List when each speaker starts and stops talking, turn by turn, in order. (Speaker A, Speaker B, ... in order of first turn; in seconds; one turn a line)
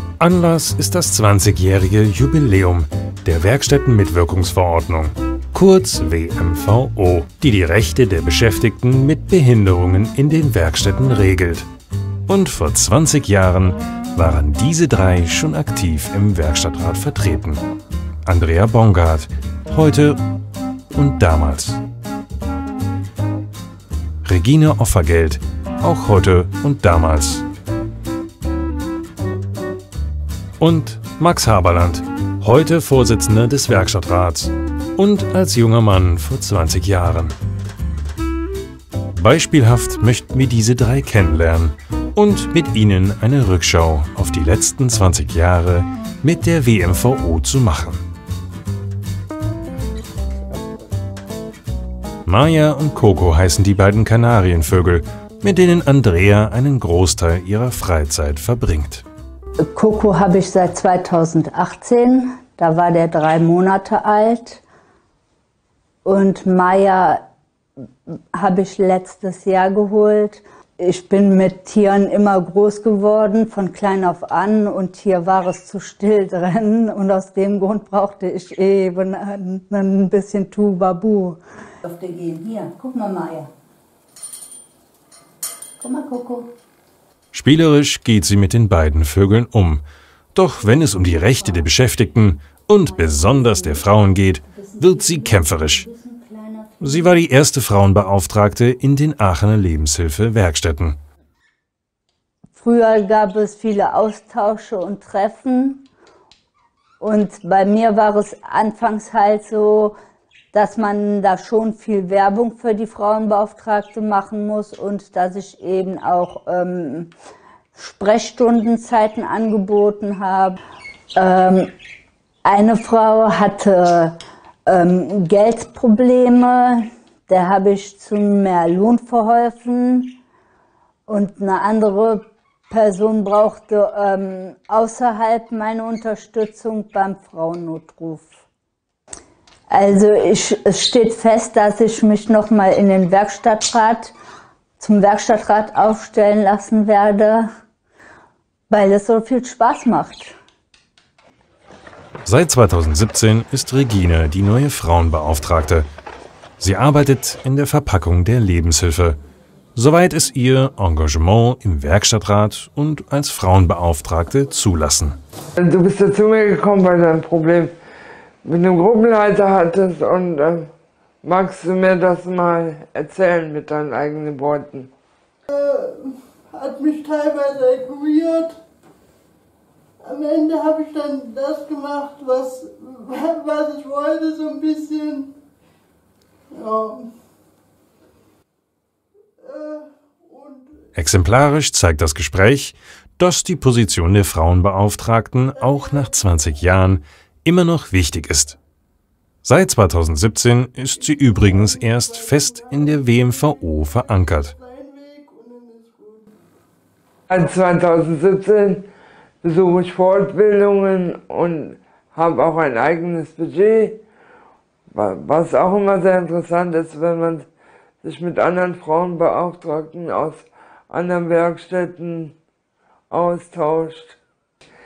Speaker A: 0.2-11.7
Speaker A: 12.3-17.6
Speaker A: 18.2-20.2
Speaker A: 20.9-21.8
Speaker A: 24.2-27.4
Speaker A: 30.6-37.4
Speaker A: 39.1-48.0
Speaker A: 52.3-59.0
Speaker B: 59.6-64.6
Speaker B: 66.0-67.2
Speaker B: 68.3-83.5
Speaker B: 85.8-86.5
Speaker A: 87.3-89.8
Speaker A: 90.3-95.9
Speaker B: 91.0-91.7
Speaker B: 92.9-93.9
Speaker B: 94.5-97.2
Speaker A: 96.8-101.0
Speaker B: 102.5-105.9
Speaker B: 107.0-110.0
Speaker B: 110.5-117.1
Speaker B: 117.8-120.6
Speaker B: 121.2-121.7
Speaker B: 122.4-130.2
Speaker B: 131.1-138.4
Speaker B: 139.7-144.2
Speaker B: 144.8-147.5
Speaker B: 148.7-150.3
Speaker A: 152.2-155.9
Speaker A: 156.6-159.2
Speaker A: 159.8-165.2
Speaker C: 165.6-167.7
Speaker C: 168.4-170.7
Speaker C: 171.2-174.9
Speaker D: 175.5-178.6
Speaker D: 180.0-185.3
Speaker D: 186.5-187.1
Speaker D: 189.4-190.8
Speaker A: 191.0-198.6
Speaker D: 195.6-196.4
Speaker A: 199.4-204.6
Speaker D: 201.0-206.3
Speaker C: 207.3-208.9
Speaker C: 209.4-214.0
Speaker C: 214.9-217.5
Speaker C: 218.0-222.3
Speaker C: 223.1-224.2